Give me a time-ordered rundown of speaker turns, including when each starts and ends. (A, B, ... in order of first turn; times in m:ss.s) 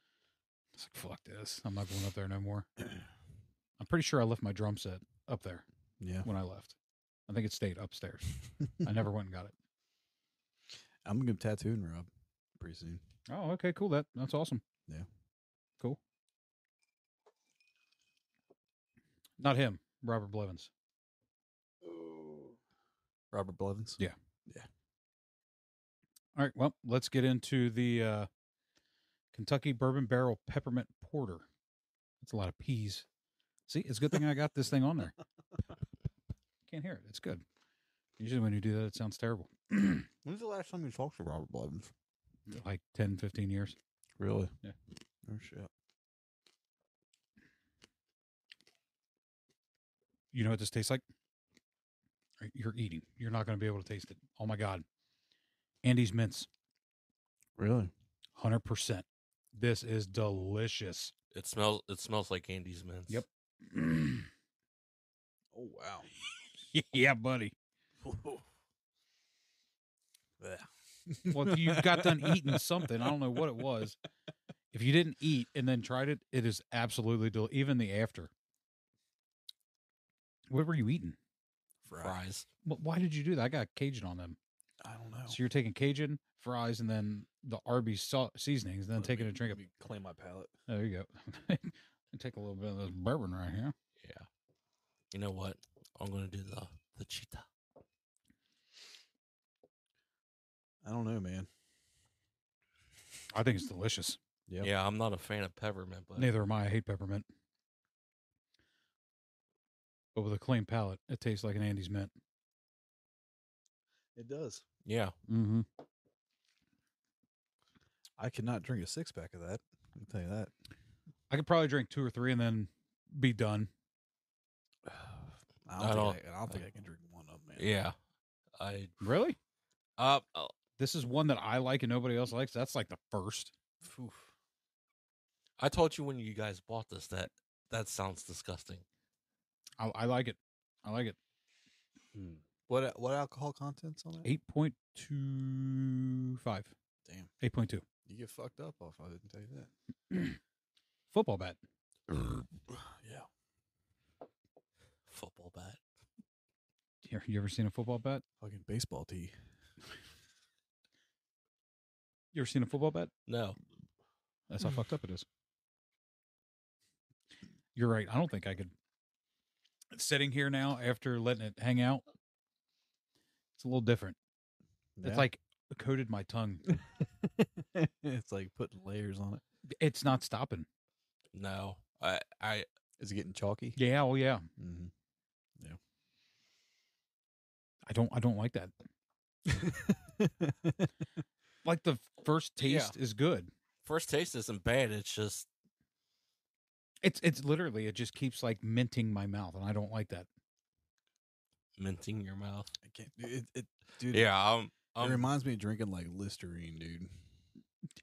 0:00.8-0:02.7 A
0:03.8-0:05.6 A
0:06.0-0:06.3 B
0:06.2-0:06.8 A
0:07.3-0:09.5 A
0:11.0-0:13.0 B
0:13.3-0:14.6 A
0:19.4-0:20.7 A
0:21.8-0:22.6 B
0:23.3-0:24.7 B
0:26.4-0:28.3 A
0:29.3-0:31.4 A
0:32.2-0:33.0 A
0:33.7-0:35.1 A
0:36.7-0:37.4 A
0:38.2-0:40.1 A
0:40.2-0:41.9 B
0:42.5-0:43.8 A
0:44.2-0:44.5 B
0:45.3-0:45.7 B
0:50.3-0:51.0 A
0:52.4-0:54.8 A
0:55.8-0:56.5 A
0:57.6-0:57.9 B
0:58.4-1:01.1 A
1:01.3-1:03.2 C
1:03.1-1:04.3 A
1:05.5-1:06.1 B
1:06.7-1:07.5 A
1:08.0-1:08.4 B
1:10.4-1:13.2 B
1:11.3-1:14.0 A
1:14.7-1:18.3 A
1:20.5-1:21.2 A
1:21.8-1:22.2 B
1:22.0-1:22.5 C
1:22.6-1:24.4 A
1:24.8-1:25.4 B
1:25.3-1:29.6 A
1:29.0-1:30.5 B
1:30.7-1:33.7 A
1:34.0-1:34.3 C
1:35.1-1:37.4 C
1:40.8-1:41.5 B
1:43.3-1:44.2 A
1:44.6-1:46.3 C
1:46.2-1:47.2 A
1:50.1-1:52.1 A
1:54.1-1:54.6 B
1:54.8-1:55.1 C
1:55.3-1:55.6 A
1:58.2-2:00.5 B
2:01.3-2:03.7 A
2:04.8-2:07.7 B
2:05.8-2:06.6 C
2:07.6-2:08.0 C
2:08.6-2:08.9 C
2:09.0-2:09.4 A
2:10.0-2:10.5 C
2:10.8-2:13.5 A
2:13.8-2:14.3 B
2:15.6-2:18.8 C
2:19.8-2:21.2 A
2:22.1-2:24.3 B
2:24.2-2:26.7 A
2:27.0-2:27.3 B
2:27.4-2:27.8 A
2:28.0-2:29.7 B
2:30.1-2:30.4 A
2:31.1-2:31.6 A
2:32.7-2:33.3 B
2:35.1-2:35.8 C
2:37.0-2:38.2 A
2:38.4-2:39.3 B
2:42.3-2:43.1 A
2:43.3-2:43.6 C
2:44.5-2:45.2 A
2:47.7-2:48.7 A
2:49.9-2:52.0 A
2:53.6-2:54.2 A
2:55.0-2:55.3 B
2:55.0-2:56.7 A
2:56.7-2:59.4 B
2:59.8-3:00.7 A
3:01.3-3:02.6 C
3:03.0-3:03.8 B
3:03.8-3:04.4 A
3:04.6-3:04.9 B
3:07.9-3:08.7 A
3:09.4-3:10.9 B
3:11.6-3:13.5 A
3:12.6-3:12.9 C
3:13.8-3:15.5 C
3:17.0-3:20.3 A
3:21.8-3:22.7 C
3:22.8-3:24.3 B
3:24.1-3:25.3 C
3:25.0-3:27.1 B